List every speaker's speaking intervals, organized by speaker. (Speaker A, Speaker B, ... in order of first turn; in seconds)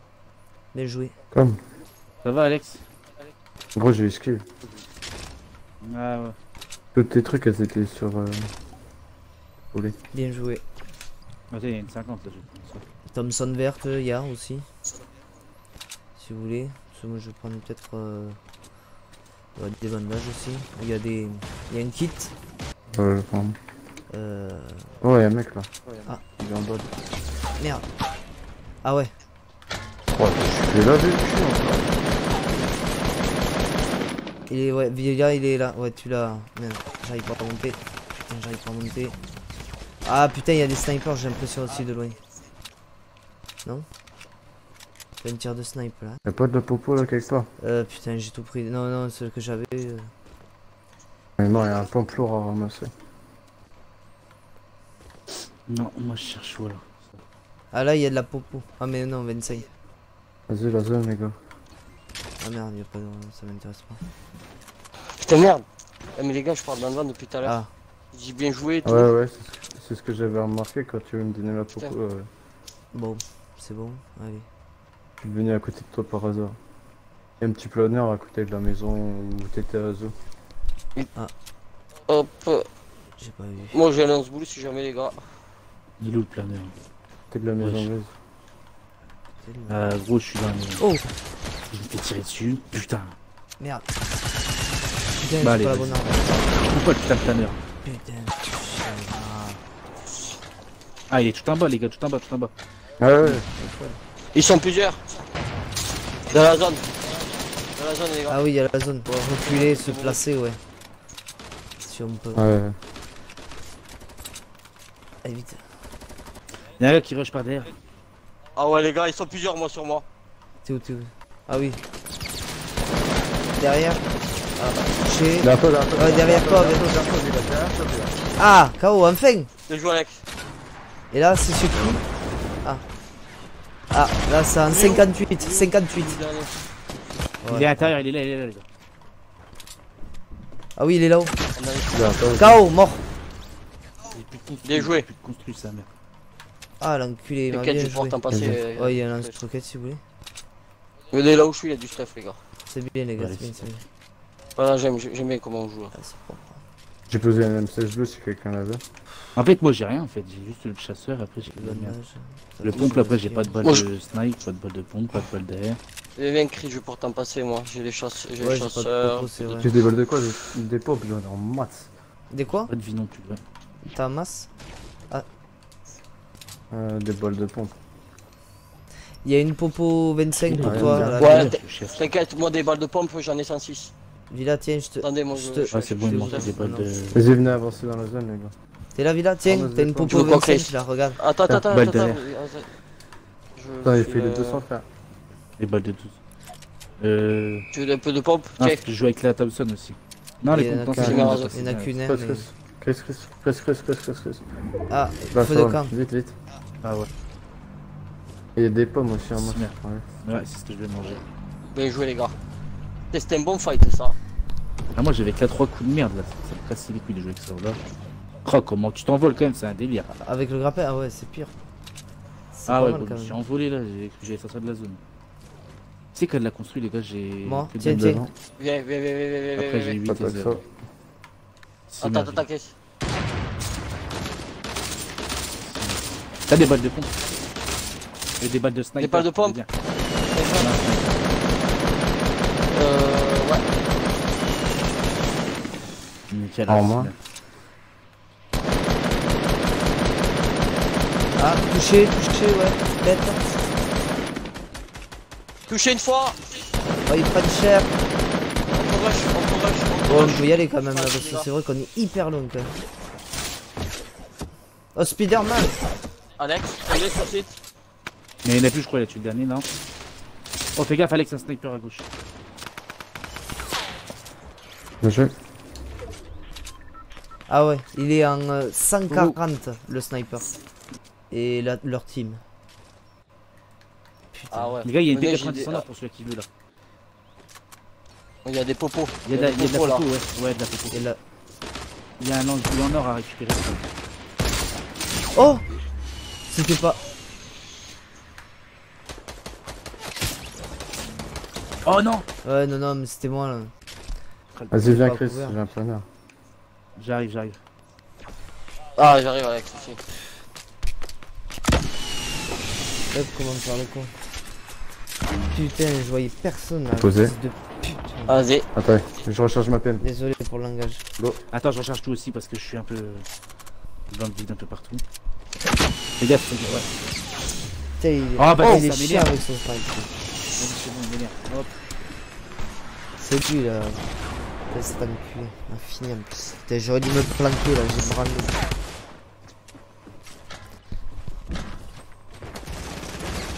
Speaker A: 0.7-1.1, 10.1-10.6, 13.1-14.7, 16.1-18.4, 19.6-22.3, 24.1-25.0, 27.6-27.9, 28.8-29.1, 34.5-39.2, 40.0-42.2, 45.2-46.2, 47.6-50.1, 57.7-59.7, 62.4-64.1, 67.4-67.7, 72.9-74.5, 83.2-83.8, 89.4-89.9, 90.8-91.0, 93.6-93.9, 95.2-96.4, 97.8-99.6, 103.2-104.0, 108.3-110.6, 111.8-112.5, 115.2-115.6, 120.6-121.8, 123.5-126.9, 128.4-129.5, 131.1-132.0, 133.9-136.2, 137.4-137.9, 140.8-141.4, 142.4-143.1, 146.8-150.0, 152.7-153.8, 155.9-156.6, 161.4-163.5, 168.4-169.7, 172.3-172.7, 173.9-174.5, 179.2-181.6, 184.3-186.9, 188.9-191.2, 200.5-202.5, 204.9-205.9, 220.2-221.6, 222.5-223.4, 227.4-228.2, 251.4-253.4, 257.1-257.9, 260.1-262.8, 264.9-265.8, 277.5-280.5, 281.3-282.4, 284.3-284.8, 290.9-291.2, 295.3-295.6, 296.5-297.0, 302.4-303.7, 304.8-305.6, 313.1-314.1, 315.5-318.4, 320.0-321.0, 328.0-330.1, 333.2-334.1, 334.7-338.6
Speaker B: 1.3-1.6, 3.7-4.5, 6.9-8.5, 22.9-23.6, 25.0-26.9, 30.1-32.1, 46.2-47.5, 51.4-52.9, 60.5-61.3, 68.8-72.3, 75.2-76.6, 77.4-80.1, 87.3-88.1, 103.0-103.5, 112.3-112.8, 125.4-128.1, 141.9-142.6, 148.3-148.6, 157.1-158.8, 169.5-171.9, 176.7-177.7, 180.6-181.1, 187.1-188.5, 189.4-190.4, 191.4-191.8, 193.8-194.8, 202.1-204.4, 205.3-206.3, 208.6-210.1, 227.8-228.3, 230.1-230.6, 246.7-247.1, 275.0-275.3, 304.7-306.1, 316.9-317.4, 318.7-320.0
Speaker C: 2.2-2.8, 5.8-6.3, 11.5-12.8, 55.7-57.2, 86.0-86.7, 87.6-87.9, 89.7-90.9, 91.7-93.2, 95.4-97.6, 101.1-102.5, 116.8-117.7, 137.5-138.6, 144.1-145.9, 153.2-153.8, 159.3-162.0, 162.6-165.8, 172.7-173.4, 180.4-182.0, 185.7-187.2, 191.7-192.2, 195.6-196.2, 197.0-197.7, 198.6-202.0, 206.8-207.1, 209.3-211.2, 214.9-217.8, 218.4-220.1, 222.7-225.0, 226.1-227.9, 229.6-230.6, 231.9-232.4, 235.6-237.2, 238.4-239.7, 240.4-241.2, 246.3-247.2, 268.4-269.7, 270.8-272.1, 279.1-279.4, 284.8-286.5, 289.2-291.0, 292.2-293.9, 301.8-302.2, 304.5-304.8, 307.0-307.6, 321.5-323.3, 324.1-325.0, 326.2-326.9, 328.4-329.4, 330.6-331.7
Speaker D: 65.2-67.6, 68.1-69.1, 82.1-82.7, 83.7-85.2, 104.3-105.0, 106.3-106.8, 107.7-108.3, 109.4-110.2, 118.5-120.0, 129.7-130.2, 134.6-136.5, 141.6-142.4, 144.6-145.1, 147.5-149.3, 151.1-152.4, 154.6-155.9, 166.2-169.3, 180.9-183.9, 185.0-186.6, 190.0-192.7, 193.5-194.6, 197.7-198.8, 200.9-201.6, 211.7-212.3, 213.1-214.1, 228.6-230.0, 232.0-232.7, 239.0-239.6, 240.3-240.7, 242.7-243.6, 255.7-256.4, 258.7-261.4, 266.4-267.6, 284.5-285.8, 288.4-290.1, 309.0-310.0, 318.3-318.6